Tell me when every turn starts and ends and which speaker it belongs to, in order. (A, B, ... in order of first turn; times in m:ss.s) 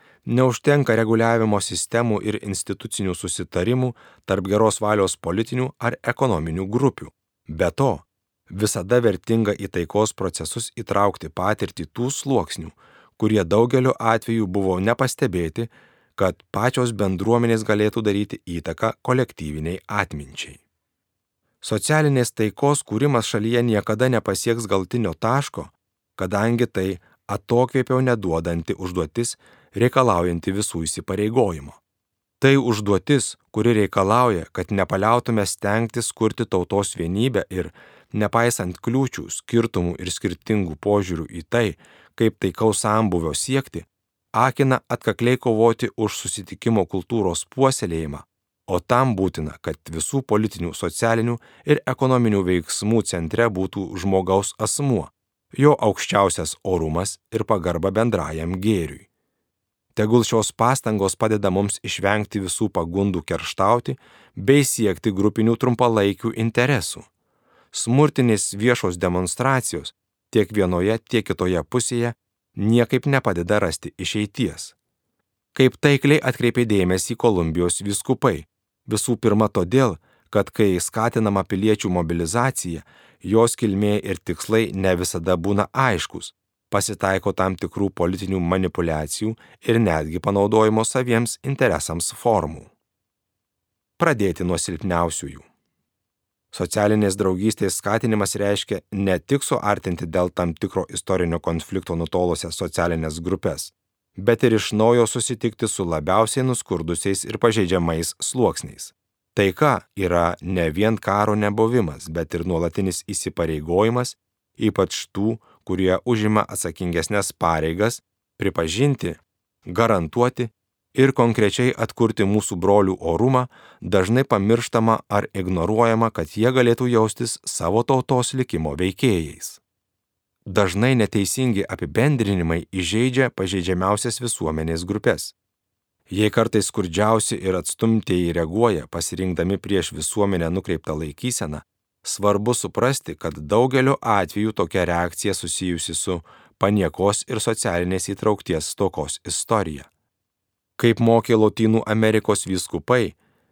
0:00.2-0:20.6 A
0:21.6-0:31.8 A
0:32.4-0:59.1 A
1:00.0-1:07.1 A
1:07.7-1:14.7 A
1:15.5-1:32.7 A
1:34.0-1:35.5 A
1:36.5-2:09.6 A
2:10.4-2:15.3 A
2:16.1-2:29.9 A
2:30.8-2:33.2 A